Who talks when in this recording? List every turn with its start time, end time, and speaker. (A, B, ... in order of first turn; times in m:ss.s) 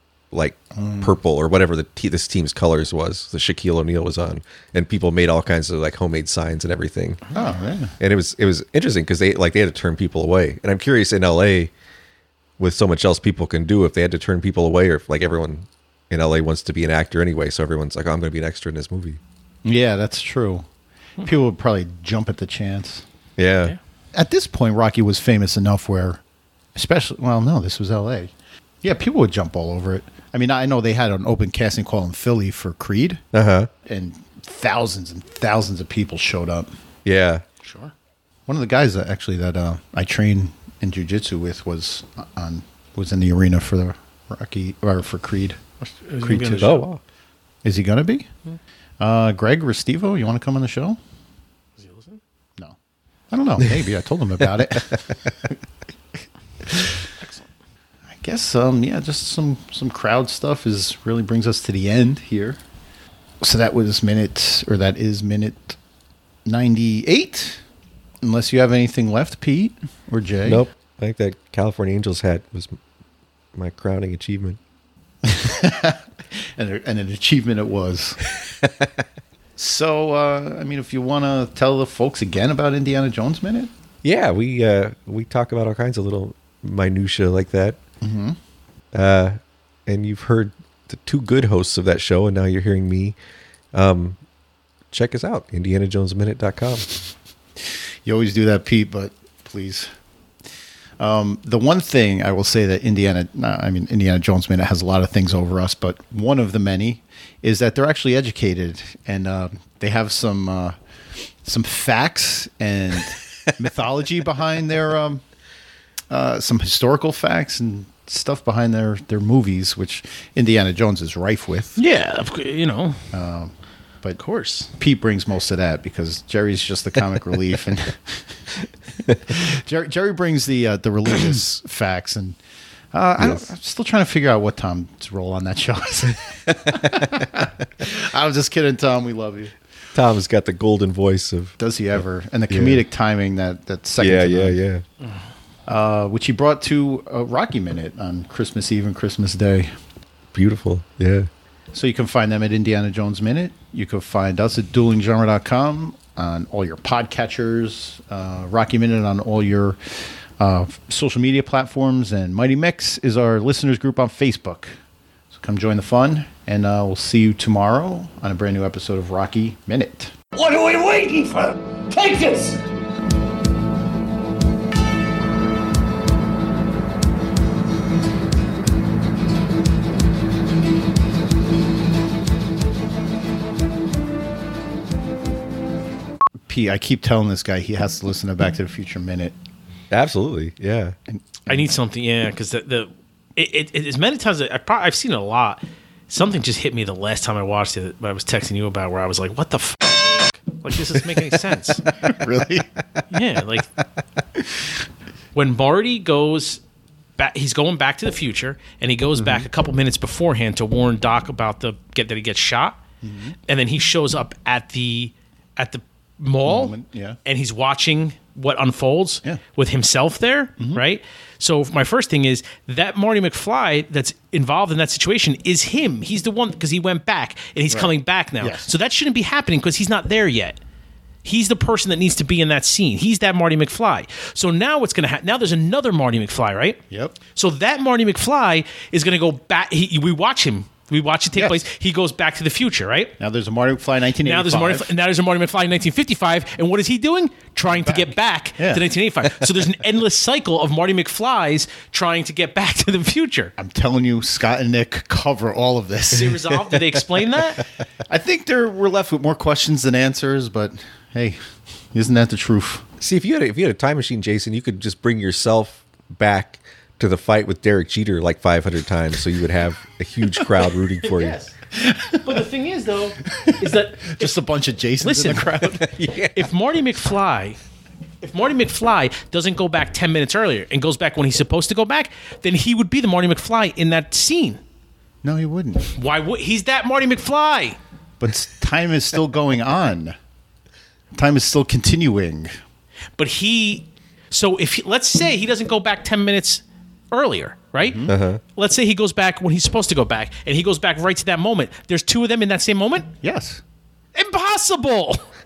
0:00.3-0:07.2 A
0:00.8-0:01.1 B
0:07.3-0:07.9 B
0:08.0-0:11.7 A
0:12.6-0:19.2 A
0:19.6-0:20.7 B
0:21.2-0:23.0 B
0:23.4-0:23.7 A
0:24.1-0:26.2 B
0:26.7-0:28.3 B
0:28.8-0:33.2 B
0:33.3-0:33.7 A
0:33.8-0:36.7 B
0:37.0-0:37.4 A
0:37.6-0:37.9 C
0:38.5-0:45.6 B
0:45.8-0:46.9 C
0:46.2-0:46.8 B
0:46.6-0:47.0 A
0:47.6-0:48.3 B
0:49.0-0:51.0 B
0:51.8-0:52.2 C
0:53.3-0:55.5 B
0:56.6-0:57.0 B
0:57.2-0:57.5 C
0:58.1-1:02.6 B
1:03.4-1:05.8 B
1:06.4-1:07.6 B
1:08.2-1:10.6 B
1:10.4-1:12.8 A
1:13.5-1:14.6 A
1:15.2-1:16.0 B
1:16.6-1:18.2 B
1:18.5-1:18.9 A
1:19.6-1:23.7 B
1:24.0-1:27.8 A
1:28.0-1:28.4 B
1:28.9-1:33.2 A
1:33.7-1:34.2 A
1:34.9-1:36.9 A
1:38.0-1:39.9 B
1:41.0-1:50.7 B
1:51.4-1:55.2 B
1:56.1-2:01.8 B
2:01.8-2:03.0 C
2:03.1-2:04.2 B
2:04.2-2:04.7 C
2:04.7-2:08.5 B
2:09.1-2:12.4 B
2:12.9-2:19.6 B
2:13.2-2:13.5 A
2:19.9-2:22.8 A
2:21.6-2:24.6 B
2:24.0-2:24.8 A
2:25.7-2:29.7 B
2:30.3-2:31.3 A
2:31.7-2:44.7 B
2:45.3-2:50.1 B
2:50.3-2:52.6 D
3:06.5-3:09.3 B
3:09.9-3:11.0 A
3:11.1-3:11.6 B
3:11.5-3:21.8 C
3:21.9-3:23.0 B
3:23.1-3:23.7 C
3:24.4-3:24.7 B
3:25.3-3:26.6 C
3:27.2-3:32.8 C
3:29.2-3:29.5 B
3:33.0-3:33.4 B
3:33.5-3:50.6 C
3:36.4-3:37.2 B
3:47.7-3:48.7 B
3:51.2-4:03.1 C
3:56.9-3:57.2 B
4:03.2-4:04.9 B
4:04.2-4:13.5 C
4:07.7-4:08.8 B
4:13.6-4:16.7 B
4:16.1-4:17.6 C
4:18.1-4:21.4 B
4:21.9-4:22.9 B
4:23.0-4:31.4 A
4:31.0-4:31.5 C
4:31.7-4:32.4 B
4:32.2-4:34.4 C
4:33.4-4:35.9 B
4:35.0-4:35.8 C
4:35.8-4:36.5 A
4:36.3-4:37.6 C
4:38.2-4:44.6 C
4:45.2-4:45.9 B
4:45.9-4:47.8 C
4:48.2-4:50.1 B
4:51.1-4:52.5 B
4:53.2-4:58.0 C
4:57.8-4:58.1 B
4:58.1-4:58.4 A
4:58.6-5:03.1 C
5:03.2-5:03.6 B
5:04.1-5:05.3 C